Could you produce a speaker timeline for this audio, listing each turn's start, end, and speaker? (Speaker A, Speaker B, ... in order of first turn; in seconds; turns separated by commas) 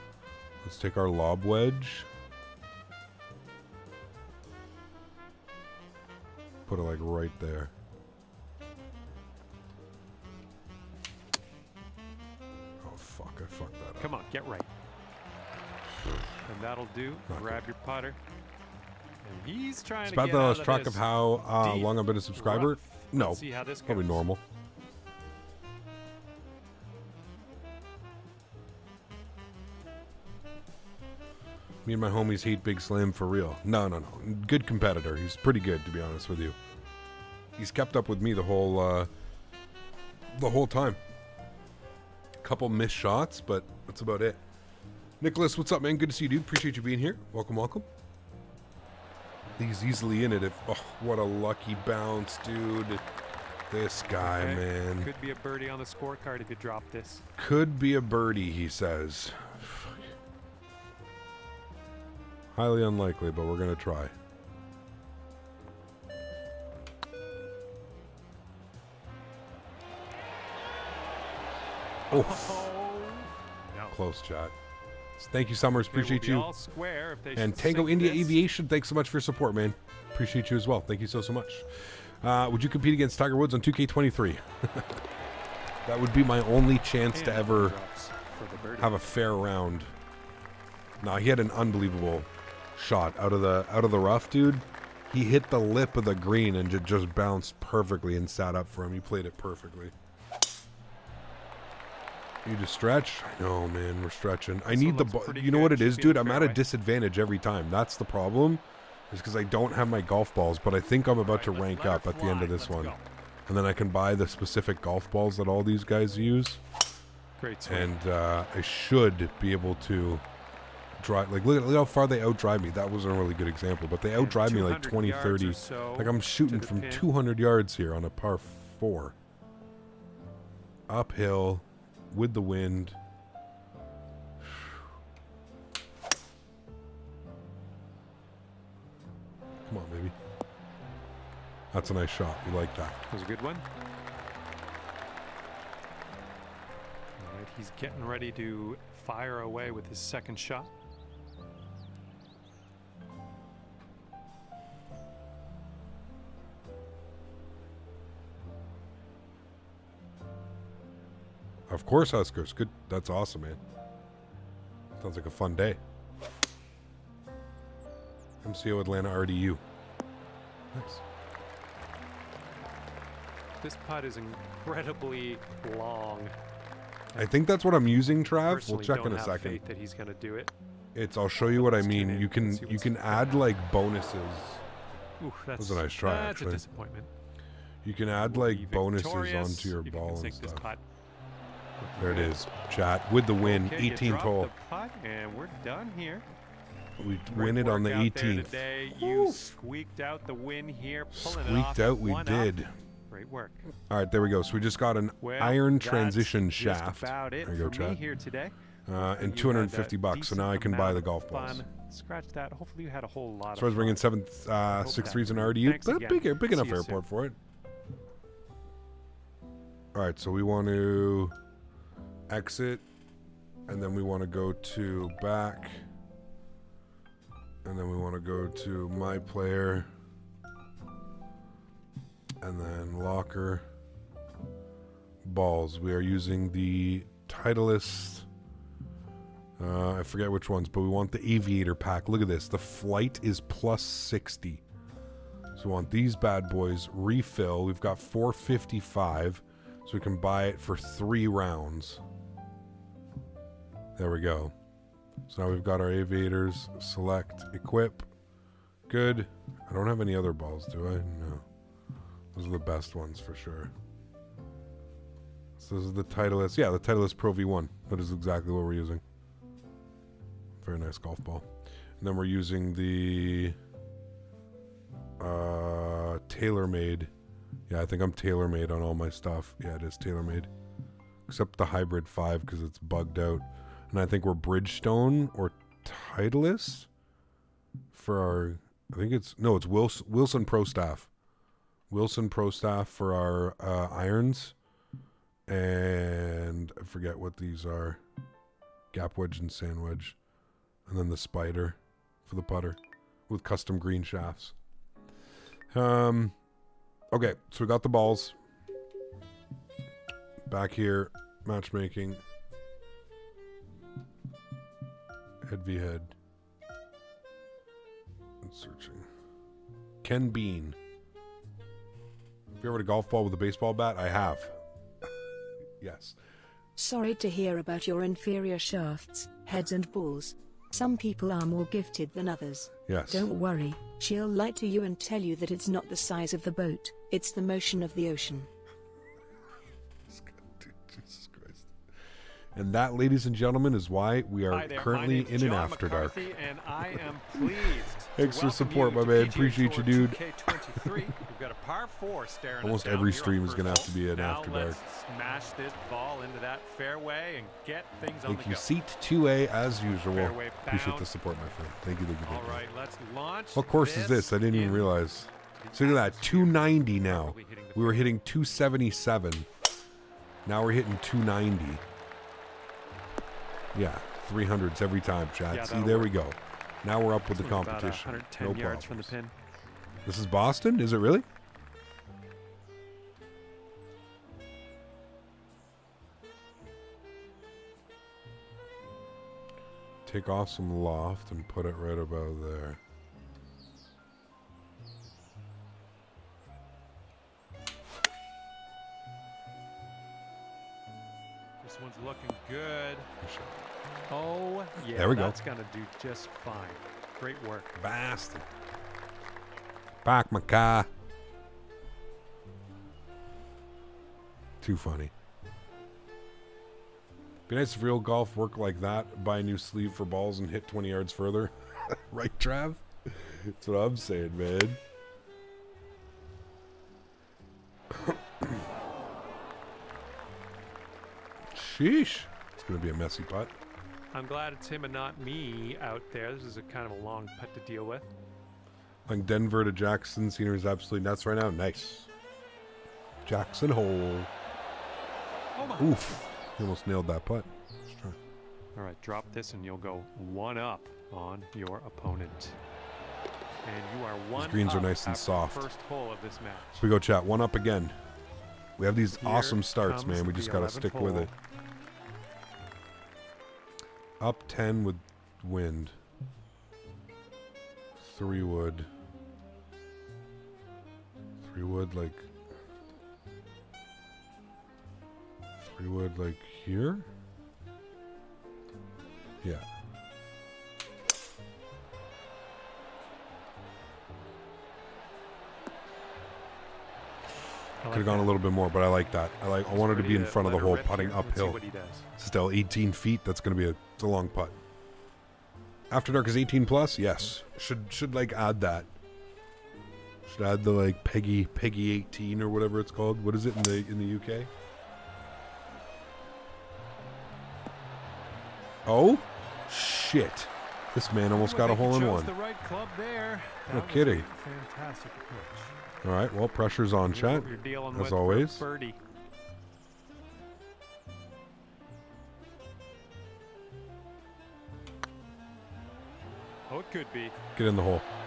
Speaker A: 0.6-2.1, Speaker A: 6.7-7.7, Speaker A: 12.8-14.1, Speaker B: 14.0-14.7, Speaker B: 16.4-18.2, Speaker A: 17.3-17.6, Speaker B: 19.2-24.2, Speaker A: 20.1-24.4, Speaker A: 31.8-36.6, Speaker A: 37.6-39.1, Speaker A: 40.3-41.0, Speaker A: 42.4-44.4, Speaker A: 45.2-47.9, Speaker A: 49.6-53.0, Speaker A: 53.7-55.1, Speaker B: 54.2-57.2, Speaker A: 57.4-60.0, Speaker A: 62.5-64.1, Speaker A: 72.1-72.7, Speaker B: 72.1-74.0, Speaker A: 73.9-74.5, Speaker A: 75.2-76.5, Speaker B: 75.8-78.4, Speaker A: 77.3-85.0, Speaker A: 85.8-87.8, Speaker B: 87.1-89.1, Speaker A: 88.8-89.9, Speaker A: 91.0-99.9, Speaker A: 102.4-112.9, Speaker B: 104.7-106.6, Speaker B: 111.2-113.1, Speaker A: 113.5-116.6, Speaker B: 117.4-118.0, Speaker A: 117.7-120.2, Speaker A: 121.0-129.1, Speaker B: 124.1-127.1, Speaker A: 130.9-133.0, Speaker A: 134.4-134.8, Speaker A: 139.6-140.1, Speaker A: 141.7-143.0, Speaker B: 143.1-143.6, Speaker B: 147.2-150.7, Speaker A: 161.7-163.6, Speaker A: 165.0-165.8, Speaker A: 168.4-169.6, Speaker A: 170.7-171.0, Speaker B: 173.6-176.3, Speaker A: 177.2-179.6, Speaker B: 178.4-180.5, Speaker A: 180.9-184.6, Speaker B: 181.5-183.5, Speaker B: 185.2-187.1, Speaker A: 185.6-186.6, Speaker A: 187.8-190.7, Speaker B: 188.2-190.8, Speaker B: 191.8-192.4, Speaker A: 192.0-194.5, Speaker B: 193.4-196.2, Speaker A: 197.0-199.5, Speaker B: 197.3-202.6, Speaker A: 201.1-202.7, Speaker B: 203.1-203.7, Speaker A: 203.9-208.0, Speaker B: 205.2-208.6, Speaker A: 208.9-211.6, Speaker B: 209.1-214.1, Speaker A: 213.5-217.4, Speaker B: 214.7-217.1, Speaker A: 219.9-221.3, Speaker A: 222.3-222.8, Speaker A: 223.7-225.8, Speaker A: 227.6-229.9, Speaker A: 232.4-233.6, Speaker A: 235.2-238.3, Speaker A: 239.6-244.6, Speaker A: 245.5-252.0, Speaker A: 254.0-254.5, Speaker A: 255.3-258.1, Speaker A: 258.9-261.4, Speaker A: 262.3-263.7, Speaker A: 265.6-269.0, Speaker A: 270.6-273.6, Speaker A: 275.2-277.1, Speaker A: 277.7-280.5, Speaker A: 281.3-286.9, Speaker A: 287.9-291.1, Speaker A: 291.9-294.5, Speaker A: 295.5-298.0, Speaker A: 298.9-300.2, Speaker A: 300.9-304.5, Speaker A: 305.7-306.3, Speaker A: 307.1-308.4, Speaker A: 310.4-312.2, Speaker A: 315.4-316.1, Speaker A: 318.4-319.1, Speaker A: 320.0-320.8, Speaker A: 322.6-324.6, Speaker A: 325.8-326.1, Speaker C: 326.8-338.5, Speaker A: 332.9-333.3, Speaker A: 340.1-341.7, Speaker A: 342.5-346.2, Speaker B: 344.5-358.7, Speaker A: 347.4-350.2, Speaker A: 352.6-354.8, Speaker A: 358.3-362.6, Speaker B: 360.1-361.1, Speaker B: 362.2-364.9, Speaker A: 363.5-369.5, Speaker B: 365.6-368.1, Speaker A: 370.4-371.8, Speaker A: 373.7-379.1, Speaker B: 375.5-376.1, Speaker B: 377.3-379.3, Speaker A: 380.0-381.2, Speaker A: 390.0-392.8, Speaker B: 401.6-403.1, Speaker A: 403.2-403.6, Speaker B: 404.1-407.8, Speaker A: 404.9-405.4, Speaker A: 407.8-408.4, Speaker A: 410.0-410.9, Speaker A: 414.6-415.1, Speaker A: 417.5-424.8, Speaker A: 427.9-428.6, Speaker A: 431.5-433.5, Speaker B: 434.1-438.1, Speaker A: 439.1-442.1, Speaker A: 443.2-444.3, Speaker B: 445.6-446.0, Speaker A: 445.8-448.2, Speaker B: 448.7-452.6, Speaker B: 453.6-456.9, Speaker A: 454.3-455.7, Speaker A: 456.8-457.9, Speaker A: 458.8-461.3, Speaker B: 459.1-461.3, Speaker A: 464.2-465.9, Speaker A: 468.0-468.9, Speaker A: 471.4-472.3, Speaker A: 475.7-477.1, Speaker B: 487.8-488.3, Speaker A: 487.9-491.6, Speaker B: 489.7-492.1, Speaker A: 492.2-494.6, Speaker A: 495.9-498.9, Speaker A: 500.2-504.5, Speaker A: 508.9-512.3, Speaker B: 511.3-515.7, Speaker A: 513.7-514.3, Speaker A: 516.0-518.6, Speaker B: 517.1-519.0, Speaker B: 526.7-527.4, Speaker A: 527.5-528.0